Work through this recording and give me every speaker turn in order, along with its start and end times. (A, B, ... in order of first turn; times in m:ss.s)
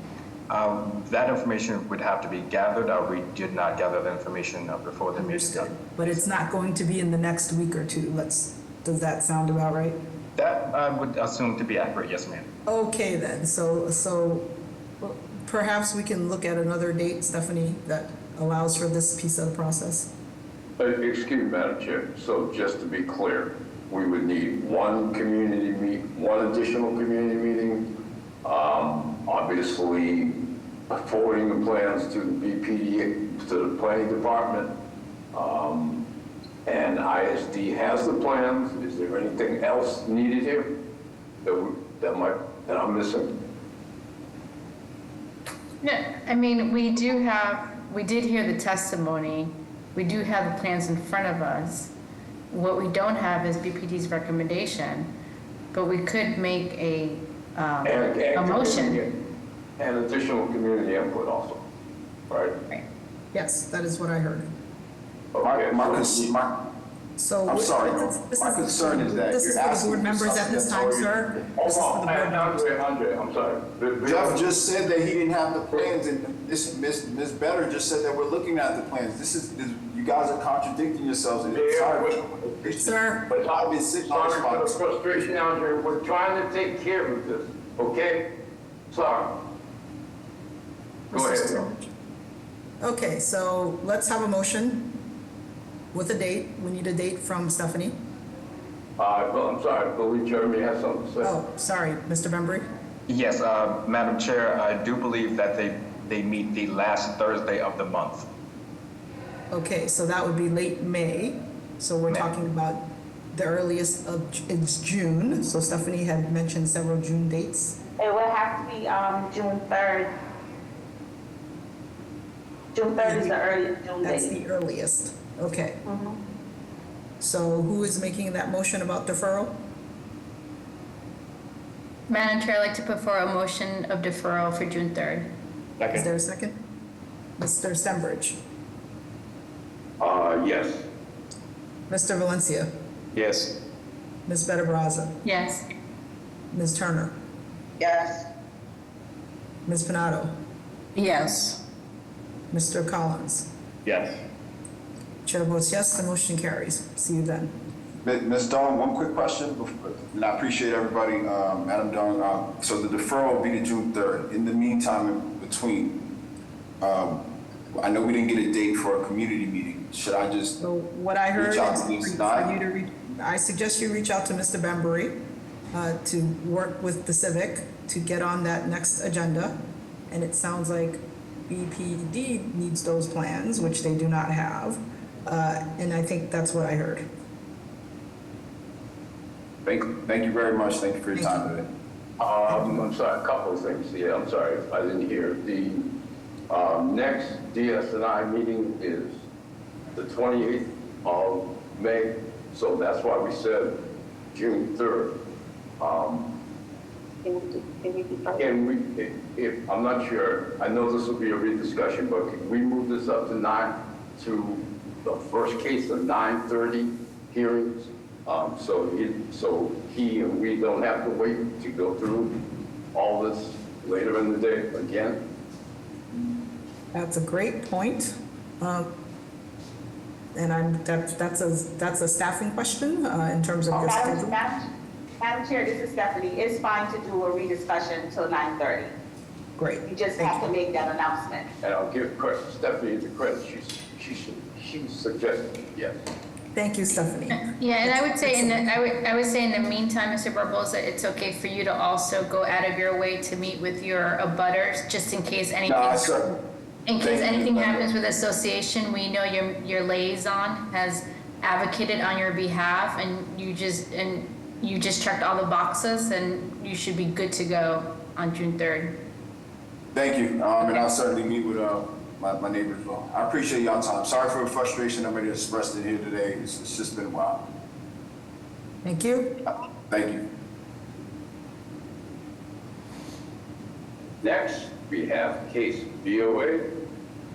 0:00.5-0:06.3 A
0:05.2-0:10.0 B
0:10.4-0:12.5 A
0:12.7-0:20.1 B
0:20.8-0:27.9 C
0:28.4-0:30.4 C
0:30.9-0:34.7 C
0:35.3-0:36.0 C
0:36.6-0:40.7 C
0:41.4-0:43.4 C
0:45.8-0:51.9 D
0:52.5-0:55.1 D
0:55.7-0:59.0 D
0:57.8-0:59.2 C
0:59.8-1:01.6 C
1:02.3-1:02.6 C
1:03.3-1:04.5 B
1:05.3-1:06.3 C
1:05.4-1:06.6 E
1:07.2-1:12.6 B
1:07.5-1:11.0 E
1:10.9-1:14.5 C
1:14.0-1:23.0 E
1:21.5-1:22.3 C
1:22.8-1:23.3 B
1:23.3-1:28.3 C
1:23.5-1:24.7 E
1:28.9-1:29.4 C
1:31.1-1:31.7 C
1:31.1-1:31.9 B
1:32.8-1:34.9 B
1:35.9-1:37.9 B
1:39.0-1:41.3 C
1:41.2-1:42.6 B
1:43.1-1:48.3 A
1:49.5-1:57.8 B
1:58.0-2:00.1 F
2:02.7-2:04.3 F
2:03.0-2:03.4 B
2:04.0-2:05.8 B
2:05.8-2:06.2 F
2:07.2-2:09.5 B
2:12.1-2:15.3 D
2:15.9-2:16.6 B
2:17.4-2:18.4 B
2:20.0-2:20.8 C
2:21.9-2:22.7 B
2:23.1-2:23.5 A
2:24.3-2:25.2 B
2:25.2-2:25.6 D
2:26.5-2:27.1 B
2:27.8-2:28.3 F
2:29.6-2:30.3 B
2:31.0-2:31.6 D
2:32.5-2:33.5 B
2:33.8-2:34.2 A
2:35.2-2:37.5 B
2:38.0-2:46.0 E
2:46.8-2:50.6 E
2:50.6-2:55.2 B
2:51.4-2:52.5 E
2:55.7-2:59.6 B
3:00.1-3:07.0 B
3:09.6-3:11.7 E
3:11.1-3:11.4 B
3:12.2-3:15.9 C
3:16.5-3:19.2 C
3:19.9-3:23.8 C
3:24.3-3:25.1 C
3:25.8-3:26.3 C
3:27.2-3:28.5 F
3:28.3-3:42.3 C
3:42.9-3:45.2 C
3:46.9-3:48.9 B
3:50.3-3:54.4 B
3:53.7-3:54.6 F
3:55.2-3:58.9 F
3:59.6-4:00.5 B
3:59.8-4:01.5 F
4:01.6-4:06.0 C
4:06.5-4:08.8 B
4:07.3-4:16.2 D
4:15.6-4:16.4 E
4:16.8-4:29.0 D
4:17.0-4:17.9 E
4:29.9-4:37.4 E
4:38.8-4:39.4 B
4:39.5-4:40.2 E
4:44.2-4:46.7 C